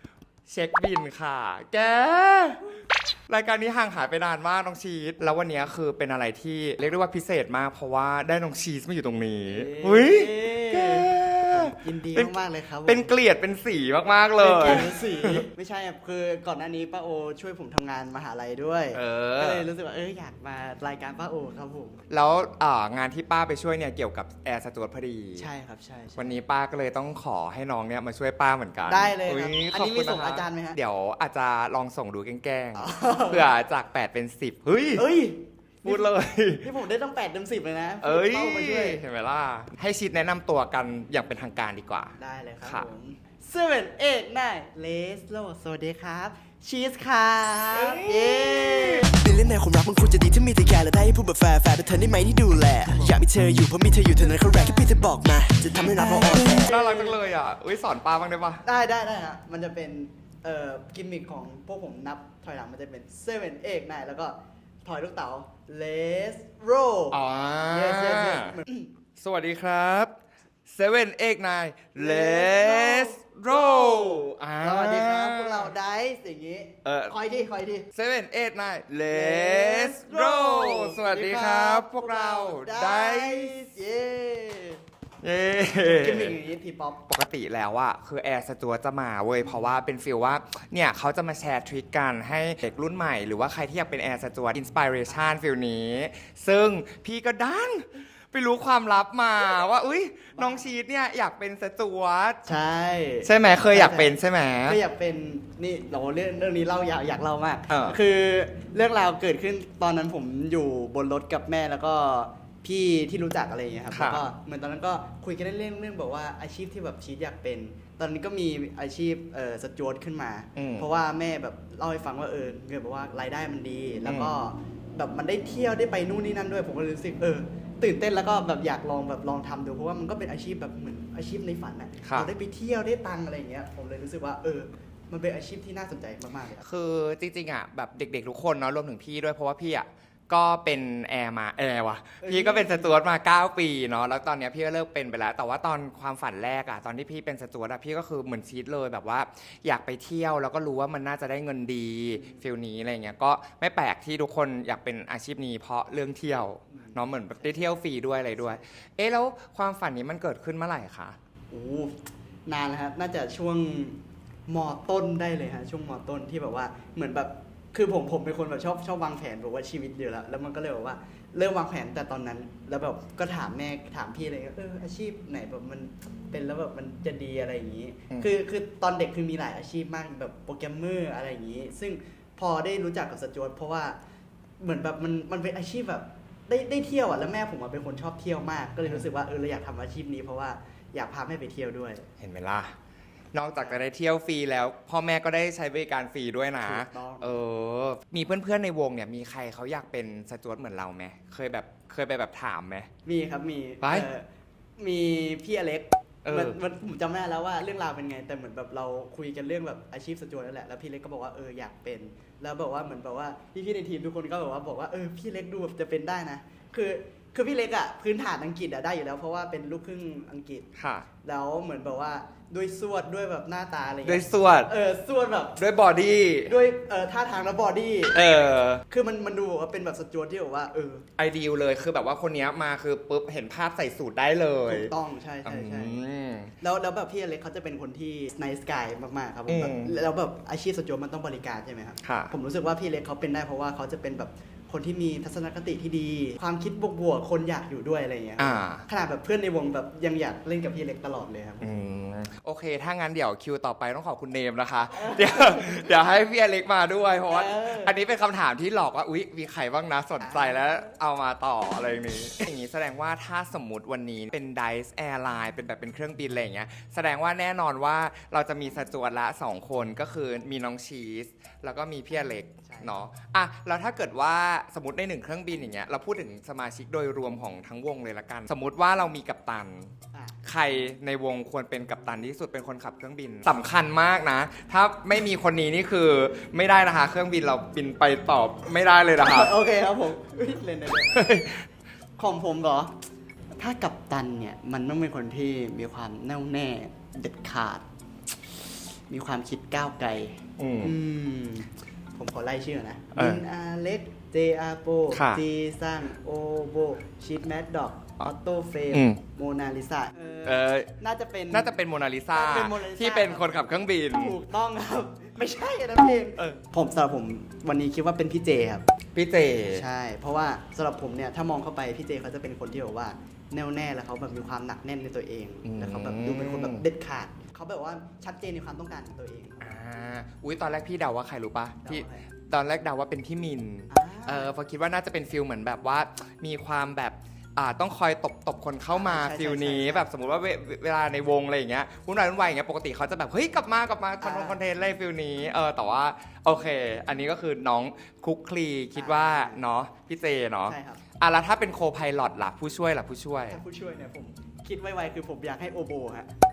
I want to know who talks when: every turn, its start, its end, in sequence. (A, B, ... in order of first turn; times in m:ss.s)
0:00.5-0:02.6 A
0:03.3-0:12.3 A
0:09.5-0:13.1 B
0:12.9-0:15.4 A
0:14.4-0:22.0 B
0:18.9-0:19.7 A
0:22.1-0:25.5 A
0:25.4-0:26.3 B
0:26.2-0:35.0 A
0:28.9-0:30.8 B
0:32.8-0:33.5 B
0:35.0-0:39.0 B
0:35.8-0:36.7 A
0:38.0-0:42.9 A
0:42.2-0:49.4 B
0:47.7-0:49.1 A
0:49.2-0:56.6 C
0:52.8-0:53.3 B
0:53.8-0:57.2 B
0:55.9-0:58.6 A
0:58.6-1:07.2 B
1:07.1-1:08.6 A
1:07.7-1:08.9 B
1:09.2-1:10.2 A
1:10.7-1:15.7 A
1:12.0-1:17.9 B
1:16.8-1:17.1 A
1:17.9-1:23.7 A
1:19.1-1:24.8 B
1:25.2-1:26.4 A
1:25.8-1:27.1 B
1:27.1-1:42.5 A
1:29.4-1:29.7 B
1:40.4-1:40.7 B
1:42.4-1:44.1 B
1:43.2-1:44.8 A
1:44.7-2:16.6 B
1:47.7-1:48.0 A
1:53.9-1:54.2 A
2:00.6-2:00.9 A
2:04.0-2:04.3 A
2:12.0-2:12.3 A
2:16.6-2:41.2 A
2:22.2-2:23.0 B
2:32.2-2:32.4 B
2:36.7-2:37.5 B
2:38.4-2:38.7 B
2:41.5-3:04.0 B
3:04.6-3:12.1 B
3:12.2-3:12.8 A
3:13.3-3:22.9 A
3:16.6-3:17.4 B
3:23.0-3:24.3 B
3:23.8-3:24.1 A
3:24.8-3:40.7 B
3:26.2-3:26.6 A
3:40.8-3:41.1 A
3:41.2-3:48.3 B
3:44.0-3:44.7 A
3:45.6-3:46.5 A
3:48.1-3:48.8 A
3:48.9-3:51.0 B
3:51.2-3:54.9 A
3:54.7-3:56.0 B
3:55.4-3:56.6 A
3:56.6-4:11.7 B
3:59.5-3:59.9 A
4:02.0-4:02.3 A
4:08.4-4:08.8 A
4:11.6-4:49.5 A
4:14.9-4:16.0 B
4:17.3-4:17.9 B
4:20.2-4:20.7 B
4:32.6-4:33.0 B
4:40.1-4:40.4 B
4:49.2-4:51.3 B
4:51.1-4:51.6 A
4:52.2-4:53.0 B
4:53.6-4:57.8 B
4:59.1-5:11.8 B
5:00.6-5:01.0 A
5:03.2-5:03.4 A
5:05.1-5:05.4 A
5:08.9-5:09.2 A
5:10.5-5:10.9 A
5:11.5-5:14.4 A
5:12.3-5:18.9 B
5:19.2-5:19.8 A
5:19.7-5:29.6 B
5:25.6-5:26.8 A
5:29.6-5:53.6 A
5:31.8-5:32.2 B
5:33.9-5:34.5 B
5:38.9-5:40.1 B
5:44.2-5:44.6 B
5:49.0-5:49.6 B
5:50.7-5:51.0 B
5:53.5-5:56.3 B